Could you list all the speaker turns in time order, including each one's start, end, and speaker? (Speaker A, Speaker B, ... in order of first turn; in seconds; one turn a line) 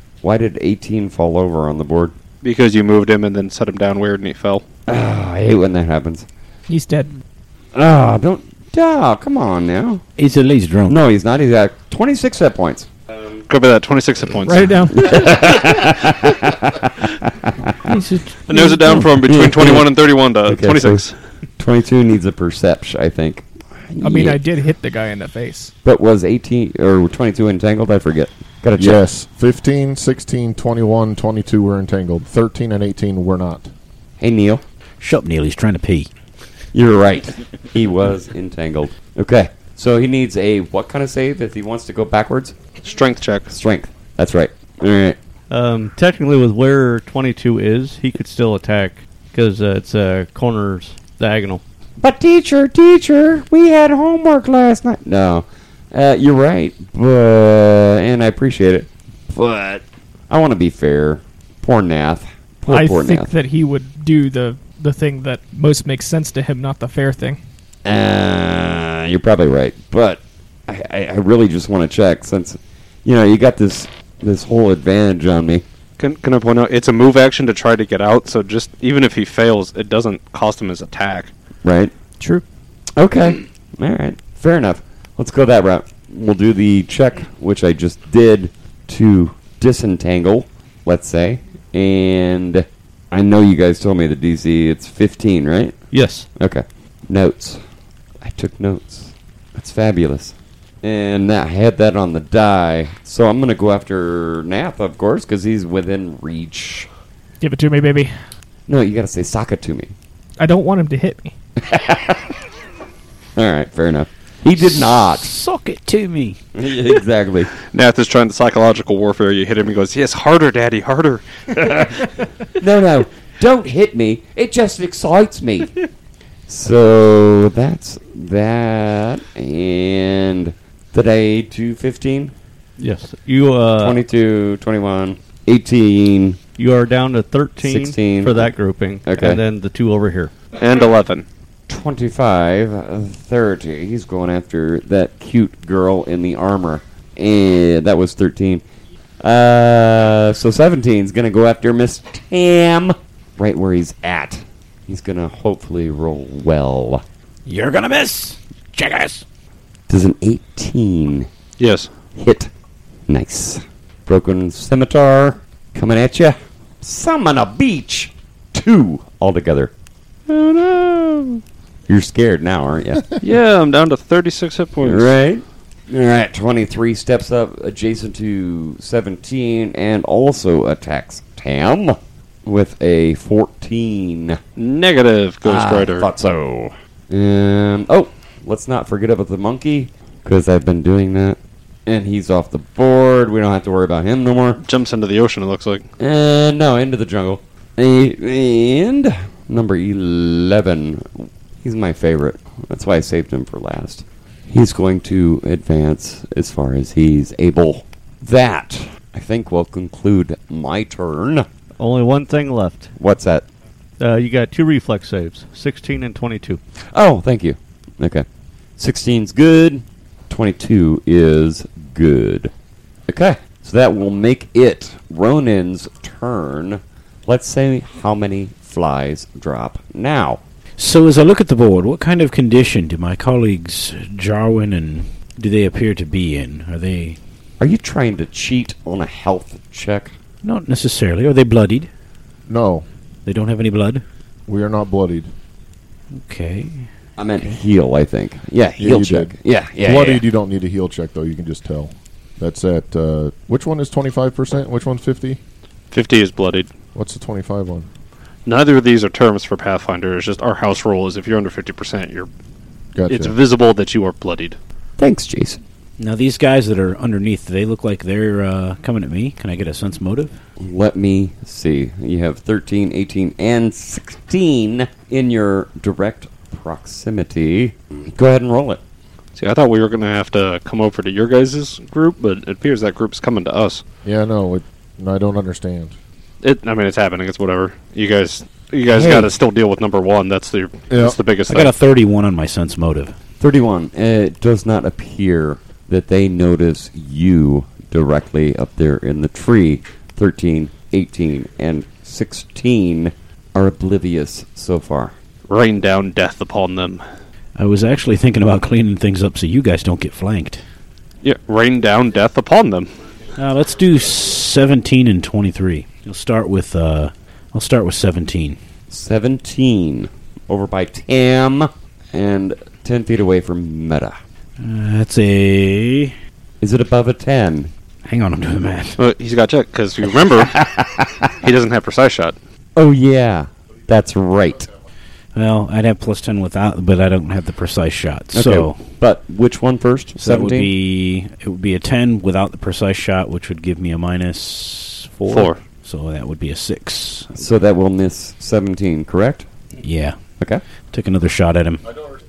Speaker A: 0.2-2.1
Speaker B: 2.4-4.6
Speaker A: 4.9-6.2
Speaker C: 6.7-7.1
Speaker A: 7.7-10.0
Speaker D: 10.2-10.9
Speaker A: 10.9-12.9
Speaker B: 13.4-14.9
Speaker C: 14.4-15.1
Speaker A: 14.9-17.9
Speaker D: 17.9-18.4
Speaker B: 18.5-21.1
Speaker A: 19.1-19.9
Speaker A: 20.4-21.0
Speaker A: 21.6-24.4
Speaker C: 24.0-25.7
Speaker A: 25.8-29.0
Speaker E: 28.8-33.7
Speaker A: 34.2-34.6
Speaker D: 35.0-36.1
Speaker A: 36.7-42.5
Speaker B: 42.8-43.5
Speaker A: 43.5-45.2
Speaker F: 45.5-51.6
Speaker A: 52.0-63.3
Speaker C: 62.7-67.4
Speaker A: 67.8-75.6
Speaker B: 76.0-81.3
Speaker A: 81.6-81.9
Speaker A: 83.0-97.6
Speaker F: 95.9-96.3
Speaker A: 98.2-106.9
Speaker C: 107.4-108.1
Speaker A: 108.7-109.9
Speaker C: 110.4-111.3
Speaker A: 111.6-112.3
Speaker A: 113.3-115.3
Speaker D: 115.2-116.4
Speaker A: 116.5-117.5
Speaker B: 117.7-121.3
Speaker A: 122.6-125.8
Speaker A: 126.5-132.3
Speaker F: 132.8-134.0
Speaker A: 133.8-136.4
Speaker F: 136.6-140.3
Speaker A: 137.6-138.5
Speaker A: 139.1-139.4
Speaker B: 140.6-141.2
Speaker A: 141.7-148.6
Speaker A: 149.2-157.0
Speaker D: 157.5-159.2
Speaker A: 159.9-161.3
Speaker B: 161.6-161.9
Speaker A: 162.2-162.5
Speaker A: 163.1-169.7
Speaker A: 170.3-173.0
Speaker B: 173.2-175.1
Speaker A: 174.8-184.4
Speaker B: 184.6-186.1
Speaker A: 185.4-194.6
Speaker B: 194.6-195.8
Speaker A: 196.0-211.4
Speaker F: 211.8-212.9
Speaker A: 213.0-213.4
Speaker F: 214.0-216.6
Speaker A: 216.9-218.2
Speaker A: 218.8-222.5
Speaker A: 223.1-230.4
Speaker D: 230.8-237.2
Speaker A: 237.6-240.1
Speaker D: 240.4-241.9
Speaker E: 242.5-242.8
Speaker D: 243.2-244.0
Speaker E: 244.5-245.3
Speaker D: 246.2-246.9
Speaker A: 247.2-250.2
Speaker E: 248.8-255.4
Speaker B: 255.9-256.7
Speaker E: 256.9-257.9
Speaker B: 258.4-262.3
Speaker E: 262.9-263.3
Speaker B: 263.1-264.6
Speaker A: 265.0-265.6
Speaker D: 266.0-270.3
Speaker A: 270.6-278.8
Speaker B: 279.4-283.8
Speaker E: 284.0-285.9
Speaker B: 286.4-291.7
Speaker A: 288.9-289.3
Speaker E: 290.9-291.2
Speaker D: 291.5-293.1
Speaker A: 293.4-305.1
Speaker B: 305.5-307.0
Speaker D: 307.6-310.6
Speaker B: 311.2-312.9
Speaker D: 313.4-318.6
Speaker A: 318.9-324.2
Speaker D: 324.6-326.1
Speaker A: 326.6-327.7
Speaker D: 328.0-329.0
Speaker B: 329.0-330.6
Speaker A: 330.5-331.1
Speaker B: 331.4-332.4
Speaker A: 332.8-334.7
Speaker D: 335.3-338.9
Speaker A: 338.3-340.7
Speaker D: 340.2-347.4
Speaker B: 345.3-345.6
Speaker A: 347.4-349.4
Speaker D: 349.8-350.2
Speaker D: 350.9-351.8